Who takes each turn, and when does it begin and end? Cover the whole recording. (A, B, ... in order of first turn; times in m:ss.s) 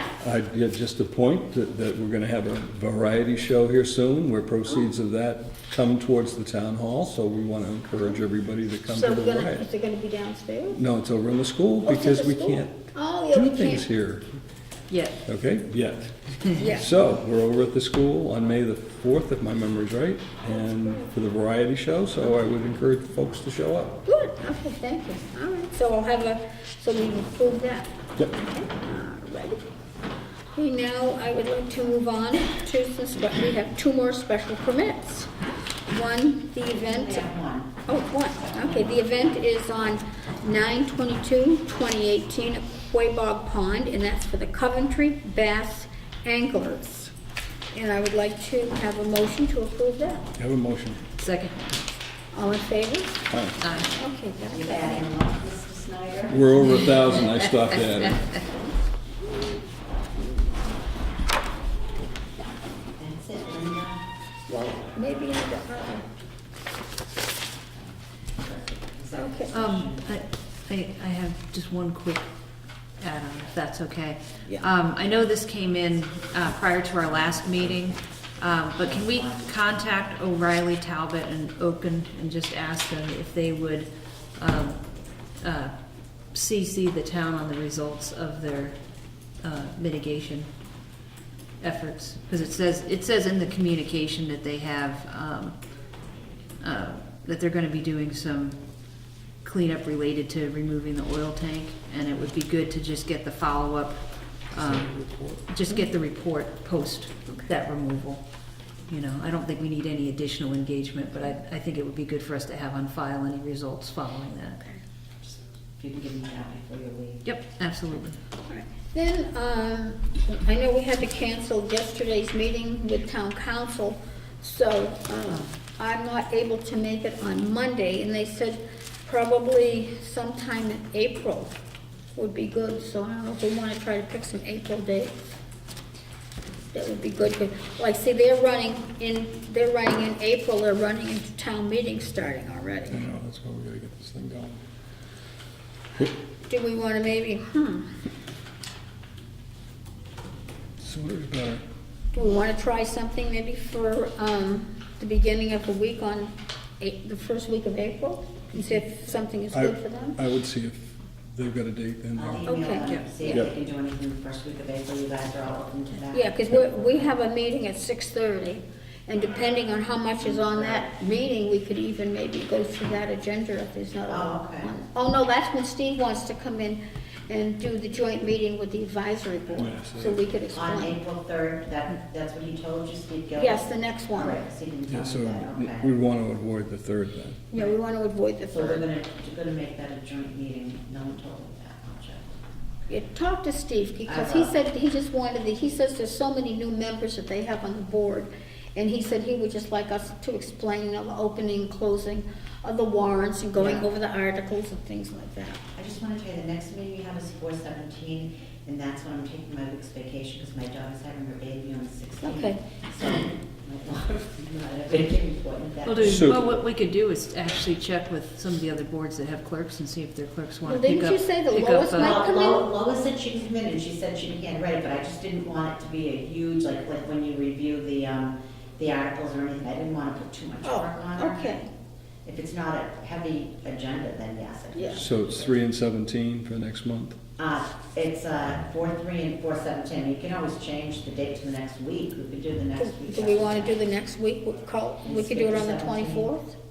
0:00.2-0:09.6 A
0:08.9-0:10.8 B
0:10.7-0:14.3 A
0:11.8-0:13.8 B
0:14.9-0:15.2 C
0:15.3-0:24.0 A
0:16.6-0:16.9 B
0:24.0-0:29.6 B
0:30.6-0:35.3 B
0:35.9-0:37.3 B
0:36.7-0:37.8 D
0:37.8-0:47.1 B
0:38.3-0:39.3 D
0:47.7-0:50.3 B
0:50.4-0:51.0 A
0:51.2-0:51.6 C
0:52.3-0:53.2 B
0:53.3-0:53.6 A
0:53.6-0:53.9 C
0:53.9-0:55.1 B
0:54.5-0:56.7 D
0:56.3-0:58.2 A
0:57.8-0:58.4 C
1:03.0-1:04.0 D
1:04.5-1:06.1 B
1:07.8-1:10.2 D
1:09.1-1:09.5 B
1:09.5-1:12.3 C
1:13.0-1:24.8 C
1:18.8-1:19.5 D
1:25.4-1:25.7 C
1:26.3-1:28.8 C
1:29.4-1:30.5 C
1:31.6-1:35.6 C
1:36.6-1:38.6 C
1:39.4-1:44.9 C
1:44.6-1:45.4 A
1:45.5-1:48.2 C
1:48.8-1:54.6 C
1:55.8-1:57.2 D
1:57.2-1:58.2 C
1:58.5-2:11.5 B
2:12.1-2:15.4 B
2:16.7-2:23.0 B
2:22.9-2:24.6 A
2:26.5-2:27.9 B
2:30.8-2:31.6 A
2:32.1-2:40.2 B
2:39.5-2:42.4 A
2:42.2-2:47.0 D
2:42.4-2:43.4 B
2:42.8-2:43.1 C
2:46.1-3:01.0 B
2:50.2-2:50.9 D
2:54.1-2:54.7 D
2:59.6-3:00.2 A
3:00.5-3:05.9 D
3:03.4-3:04.4 B
3:04.9-3:07.4 A
3:07.5-3:08.8 B
3:08.5-3:12.3 D
3:12.9-3:25.6 B
3:14.0-3:14.5 D
3:23.6-3:23.9 D
3:25.7-3:36.4 D
3:32.2-3:32.6 B
3:35.8-3:42.2 C
3:36.0-3:36.4 A
3:40.6-3:42.7 B
3:41.9-3:51.6 D
3:50.6-3:51.7 B
3:52.2-3:55.5 D
3:54.7-3:55.0 B
3:55.0-3:57.2 A
3:57.4-4:03.8 D
4:02.8-4:06.6 B
4:05.0-4:06.3 D